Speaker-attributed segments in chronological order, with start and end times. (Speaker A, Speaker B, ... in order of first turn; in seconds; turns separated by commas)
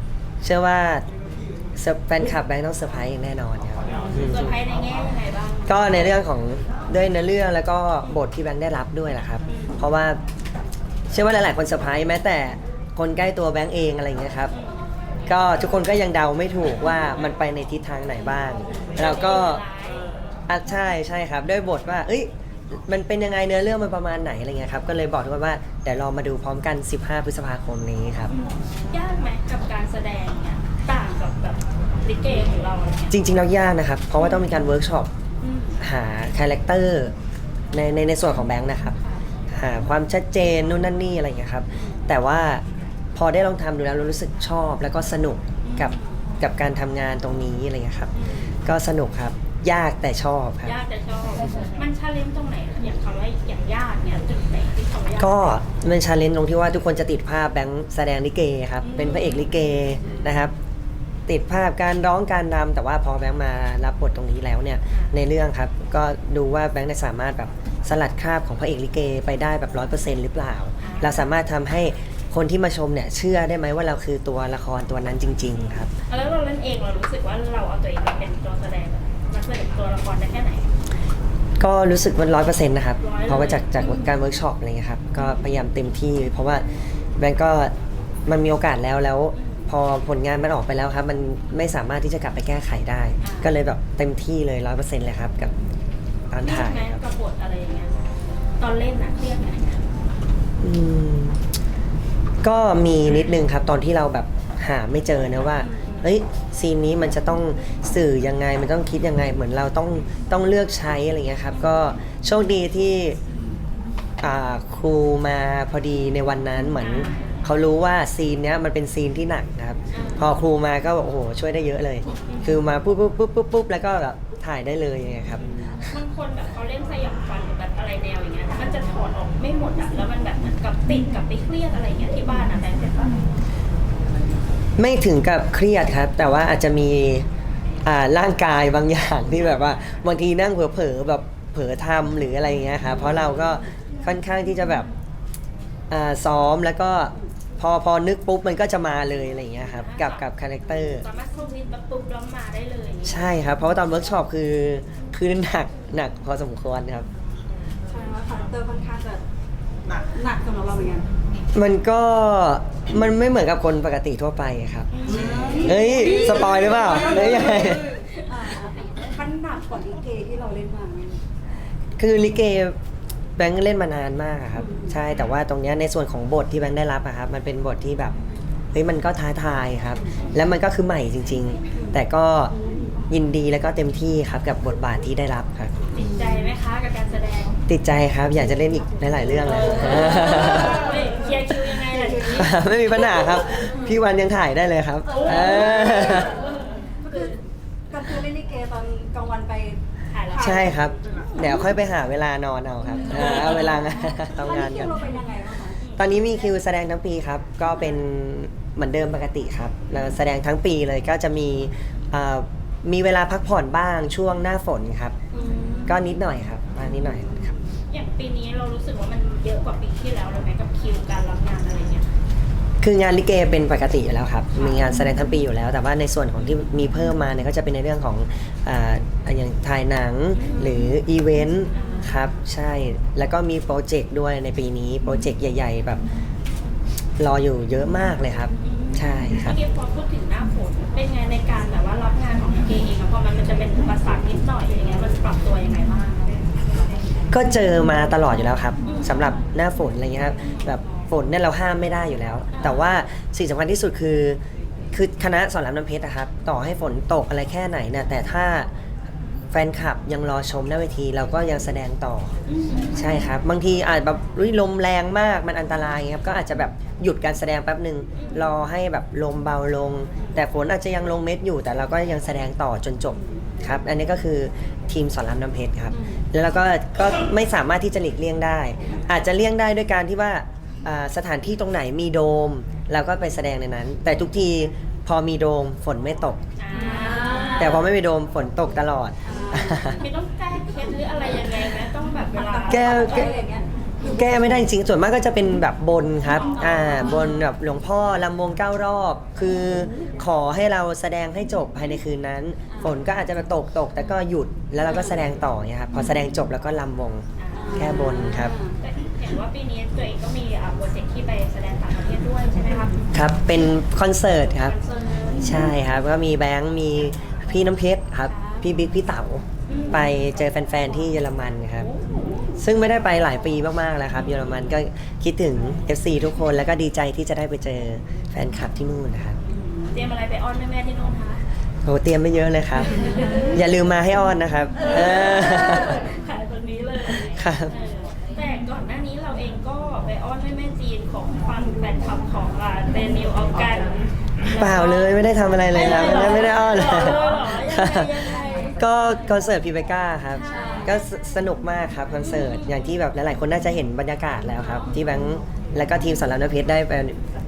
Speaker A: 0.4-1.0, Speaker A: 1.8-4.6, Speaker B: 4.1-6.0, Speaker A: 5.7-10.2, Speaker B: 9.5-9.8, Speaker A: 11.1-14.5, Speaker B: 14.5-14.8, Speaker A: 15.3-19.6, Speaker B: 19.0-20.1, Speaker A: 20.5-28.3, Speaker B: 28.3-33.2, Speaker A: 33.1-35.1, Speaker B: 35.4-35.8, Speaker A: 35.8-37.1, Speaker A: 37.7-39.0, Speaker A: 39.5-42.6, Speaker A: 43.1-48.1, Speaker B: 45.6-46.2, Speaker B: 48.1-48.5, Speaker A: 48.6-50.8, Speaker B: 50.6-55.6, Speaker A: 55.2-60.5, Speaker B: 58.8-59.5, Speaker A: 61.3-75.9, Speaker B: 70.8-71.3, Speaker B: 76.1-80.7, Speaker A: 81.6-86.6, Speaker B: 83.0-84.1, Speaker A: 87.2-87.7, Speaker A: 88.3-95.5, Speaker B: 89.4-89.7, Speaker B: 93.2-93.6, Speaker A: 96.3-97.0, Speaker B: 96.4-98.1, Speaker B: 98.6-99.9, Speaker A: 100.6-101.4, Speaker A: 102.4-113.2, Speaker B: 105.6-106.1, Speaker A: 114.2-126.0, Speaker B: 116.8-117.3, Speaker B: 119.9-120.3, Speaker B: 122.3-122.6, Speaker B: 125.4-133.2, Speaker A: 134.8-137.3, Speaker A: 137.8-144.9, Speaker A: 145.9-151.1, Speaker B: 149.6-153.3, Speaker A: 153.0-157.1, Speaker C: 157.9-159.2, Speaker C: 160.1-161.1, Speaker A: 161.5-164.9, Speaker B: 164.9-168.3, Speaker C: 165.2-165.7, Speaker A: 165.5-167.9, Speaker C: 168.3-171.2, Speaker A: 172.0-172.8, Speaker A: 173.4-178.1, Speaker C: 174.6-174.9, Speaker A: 178.7-182.5, Speaker A: 183.1-185.7, Speaker B: 185.9-187.6, Speaker C: 186.0-186.4, Speaker A: 187.7-190.9, Speaker B: 189.4-192.6, Speaker C: 191.9-193.8, Speaker A: 192.4-196.4, Speaker B: 195.1-197.4, Speaker C: 195.2-196.4, Speaker C: 197.1-197.4, Speaker C: 197.9-200.8, Speaker B: 200.1-200.8, Speaker A: 200.4-205.0, Speaker B: 201.3-201.7, Speaker B: 203.1-203.8, Speaker C: 204.2-205.8, Speaker B: 205.8-206.2, Speaker A: 206.0-215.2, Speaker B: 215.3-216.1, Speaker A: 215.9-217.5, Speaker B: 217.8-222.1, Speaker A: 222.8-236.0, Speaker B: 230.3-230.9, Speaker B: 231.7-232.1, Speaker A: 237.2-239.6, Speaker B: 238.6-246.3, Speaker A: 247.3-254.4, Speaker B: 248.8-249.2, Speaker B: 250.4-250.7, Speaker B: 252.5-252.9, Speaker A: 254.9-258.7, Speaker A: 259.5-262.3, Speaker B: 262.5-263.1, Speaker A: 262.9-286.4, Speaker B: 268.2-268.5, Speaker B: 286.6-287.8, Speaker C: 286.8-287.5, Speaker A: 287.6-290.0, Speaker C: 289.3-289.9, Speaker B: 290.0-293.4, Speaker C: 292.3-294.6, Speaker A: 292.7-293.3, Speaker A: 294.1-308.5, Speaker B: 296.3-297.4, Speaker B: 304.9-305.2, Speaker B: 307.4-313.1, Speaker C: 307.5-308.8, Speaker A: 313.1-314.8, Speaker B: 314.5-315.7, Speaker A: 315.4-321.9, Speaker B: 319.7-320.1, Speaker B: 321.8-322.6, Speaker A: 322.6-329.4, Speaker B: 329.8-331.4, Speaker A: 331.9-336.0, Speaker B: 332.9-333.6, Speaker B: 334.8-348.8, Speaker A: 337.3-337.7, Speaker A: 344.6-357.2, Speaker B: 350.3-351.0, Speaker C: 350.5-350.8, Speaker B: 352.2-352.9, Speaker B: 354.5-354.9